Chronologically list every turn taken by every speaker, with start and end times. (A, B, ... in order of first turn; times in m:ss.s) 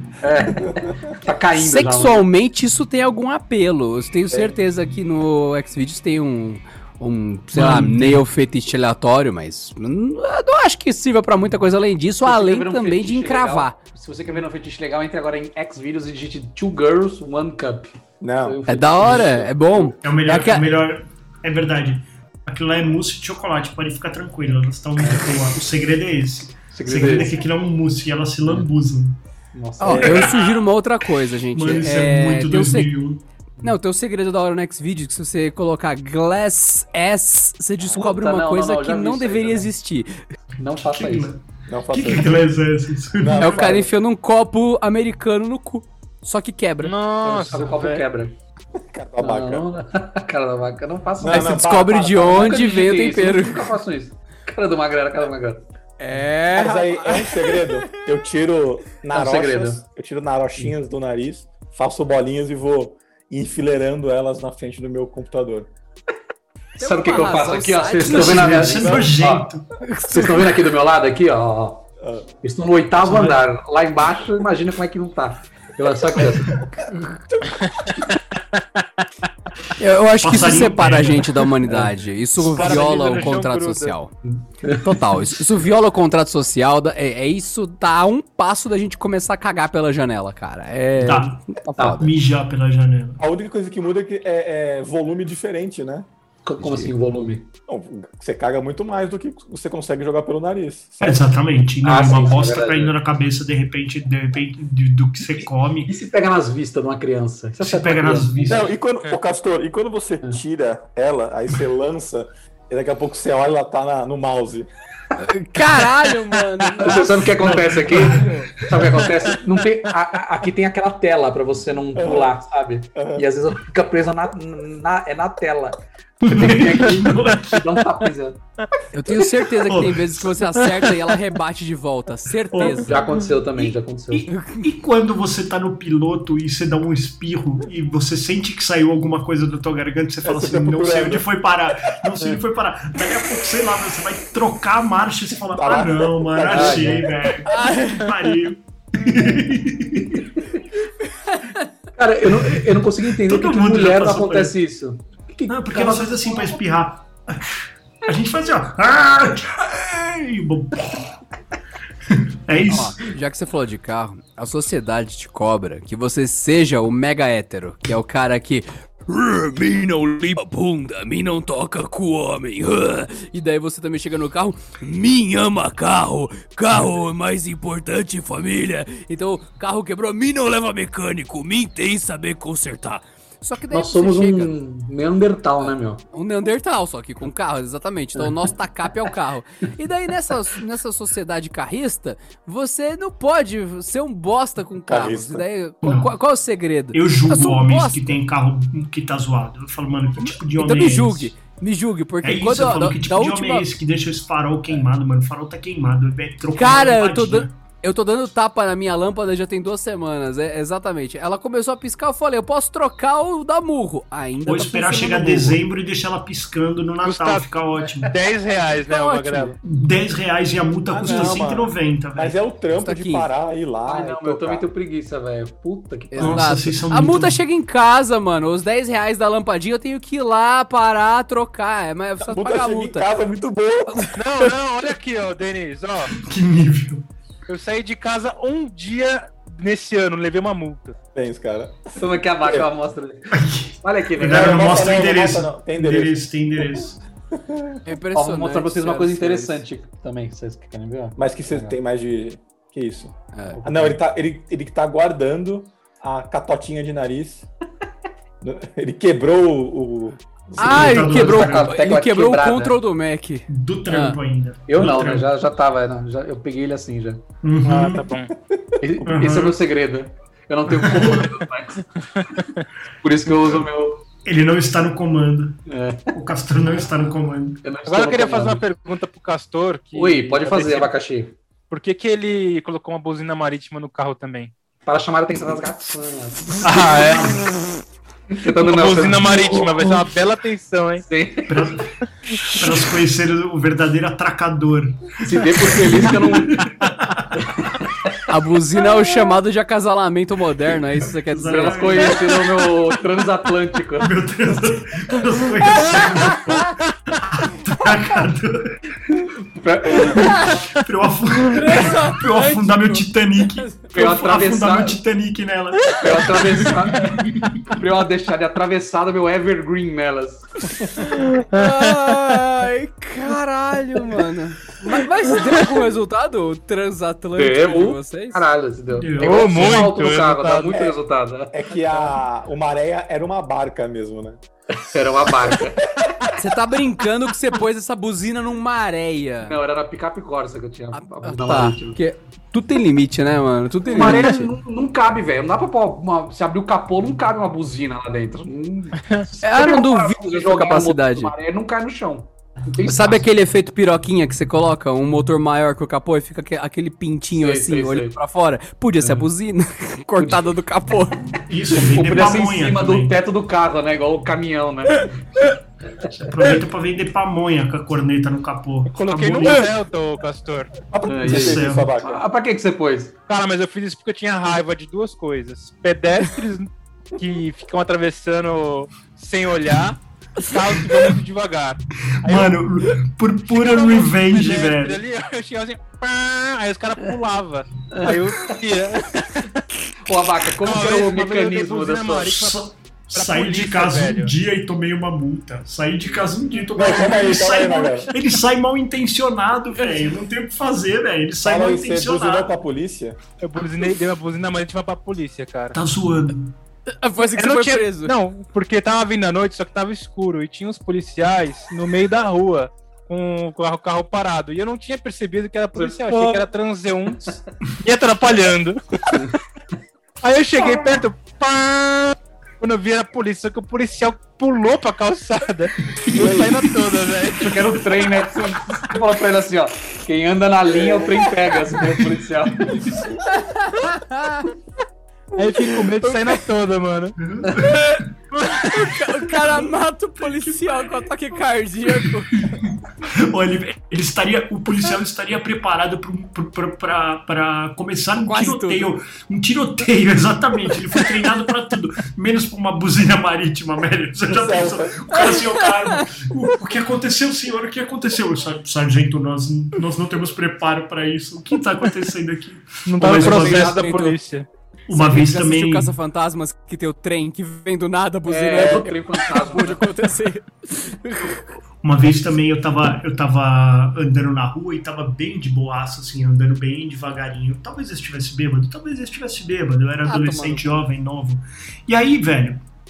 0:00.2-0:02.2 A
0:01.5-0:13.8 B
0:07.6-0:08.1 C
0:12.2-0:19.5 A
0:18.2-0:19.4 D
0:18.7-0:20.7 B
0:20.0-0:29.2 C
0:25.0-0:25.3 A
0:26.7-0:27.4 A
0:29.5-0:30.3 A
0:29.8-0:32.9 B
0:29.8-0:30.3 D
0:29.9-0:30.6 C
0:31.5-0:33.2 C
0:33.6-0:40.1 B
0:37.9-0:39.7 A
0:40.6-0:41.3 A
0:40.8-0:43.6 C
0:41.7-0:42.4 D
0:43.1-0:43.9 D
0:43.4-0:47.0 B
0:46.8-0:48.0 E
0:47.2-0:48.3 A
0:48.8-0:49.7 D
0:49.2-0:51.6 A
0:51.2-0:52.6 D
0:51.3-0:53.7 B
0:52.3-0:55.6 A
0:56.0-0:57.8 B
0:56.5-1:05.7 D
0:59.1-0:59.8 A
1:06.8-1:08.7 B
1:06.8-1:09.5 A
1:08.0-1:09.7 C
1:08.8-1:09.1 D
1:09.9-1:10.4 B
1:10.0-1:11.8 A
1:12.0-1:12.3 D
1:12.4-1:16.9 A
1:19.8-1:24.1 B
1:20.2-1:21.5 C
1:22.4-1:24.0 E
1:24.6-1:25.0 A
1:24.7-1:32.0 B
1:31.0-1:33.2 C
1:31.7-1:32.0 D
1:31.8-1:32.0 A
1:33.2-1:36.1 D
1:36.4-1:37.5 A
1:36.6-1:36.9 B
1:37.7-1:41.2 D
1:41.0-1:45.9 C
1:41.8-1:42.9 A
1:45.9-1:48.7 A
1:47.6-1:48.7 C
1:48.4-1:54.7 D
1:55.2-1:57.2 B
1:56.8-2:08.4 A
1:57.4-1:59.1 C
2:01.9-2:02.3 D
2:02.9-2:03.3 D
2:06.2-2:07.8 C
2:08.9-2:13.0 B
2:09.6-2:11.1 C
2:12.5-2:30.3 C
2:12.6-2:14.3 A
2:14.3-2:14.6 B
2:20.2-2:21.3 D
2:25.5-2:27.3 D
2:26.5-2:27.1 A
2:27.5-2:28.1 B
2:31.3-2:31.6 B
2:32.0-2:36.6 A
2:32.4-2:34.5 C
2:35.5-2:41.2 C
2:42.1-2:43.0 C
2:42.6-3:04.5 B
3:03.7-3:06.0 A
3:06.1-3:18.2 B
3:14.9-3:15.4 D
3:15.8-3:16.1 C
3:16.9-3:21.3 C
3:20.2-3:23.6 B
3:22.2-3:27.5 C
3:26.5-3:35.6 B
3:34.4-3:38.1 C
3:37.0-3:37.5 E
3:38.0-3:39.6 E
3:38.6-3:39.6 B
3:39.6-3:42.4 C
3:40.9-3:44.7 D
3:42.8-3:43.3 B
3:43.8-3:46.5 A
3:46.1-3:53.0 B
3:46.2-3:47.4 C
3:52.2-3:54.1 D
3:54.1-3:56.1 E
3:56.2-3:57.0 C
3:57.5-4:01.0 E
4:01.1-4:02.7 D
4:01.9-4:04.8 A
4:03.3-4:07.0 C
4:04.2-4:07.8 D
4:07.8-4:09.6 B
4:08.1-4:11.7 A
4:11.2-4:17.5 D
4:13.3-4:13.6 B
4:13.5-4:14.0 A
4:18.4-4:21.0 D
4:20.6-4:21.8 C
4:20.6-4:24.2 B
4:20.7-4:22.8 A
4:23.5-4:25.3 C
4:24.7-4:27.2 A
4:27.4-4:28.0 C
4:27.6-4:28.3 E
4:28.4-4:28.7 D
4:28.8-4:32.4 A
4:29.0-4:29.6 C
4:30.7-4:31.3 C
4:32.2-4:32.6 E
4:33.0-4:34.0 A
4:34.2-4:35.6 C
4:35.7-4:36.1 A
4:36.1-4:37.6 C
4:37.6-4:38.6 A
4:37.8-4:40.9 E
4:39.9-4:41.4 A
4:41.7-4:44.5 E
4:44.8-4:46.9 A
4:46.6-4:47.5 E
4:46.9-4:47.4 C
4:48.3-4:50.0 A
4:48.5-4:51.0 E
4:51.0-4:51.8 A
4:51.5-4:57.5 C
4:55.2-4:56.7 A
4:57.4-4:58.1 A
4:58.3-5:02.1 B
5:01.3-5:02.6 C
5:01.5-5:04.1 A
5:04.0-5:08.8 C
5:09.5-5:10.6 A
5:10.1-5:17.6 C
5:11.5-5:13.8 B
5:13.9-5:15.0 A
5:16.0-5:20.9 A
5:21.0-5:28.4 B
5:21.2-5:22.3 E
5:27.4-5:32.1 A
5:29.0-5:29.8 C
5:29.2-5:30.7 E
5:30.7-5:31.0 D
5:31.5-5:34.4 D
5:34.7-5:36.3 A
5:36.4-5:39.5 B
5:39.4-5:42.0 A
5:40.9-5:44.5 B
5:43.9-5:53.2 A
5:49.4-5:51.3 B
5:52.8-6:01.3 B
5:57.3-5:58.2 A
6:01.5-6:03.1 C
6:01.7-6:05.4 A
6:05.9-6:06.5 A
6:06.2-6:09.7 C
6:08.9-6:10.8 E
6:10.9-6:12.2 D
6:11.1-6:13.1 A
6:11.2-6:11.9 C
6:13.3-6:22.5 E
6:22.2-6:25.0 C
6:23.5-6:29.6 E
6:27.9-6:28.5 A
6:30.0-6:32.3 A
6:30.6-6:32.6 E
6:32.3-6:42.5 C
6:33.1-6:34.3 E
6:36.7-6:38.1 D
6:41.4-6:43.2 D
6:43.4-6:45.8 E
6:45.7-6:46.5 C
6:46.9-6:48.1 B
6:47.4-6:59.3 E
6:55.7-6:56.4 A
7:00.2-7:07.8 E
7:06.0-7:06.4 C
7:07.4-7:12.8 A
7:12.6-7:13.0 C
7:13.2-7:14.5 B
7:15.4-7:19.0 E
7:17.2-7:18.0 C
7:18.5-7:22.4 B
7:20.3-7:20.9 C
7:22.0-7:43.8 C
7:28.2-7:28.9 B
7:34.3-7:35.1 D
7:35.2-7:36.1 B
7:42.8-7:44.5 E
7:43.1-7:44.2 B
7:44.9-7:45.9 C
7:44.9-7:51.5 B
7:48.2-7:49.9 A
7:51.8-8:02.6 C
8:00.0-8:00.7 B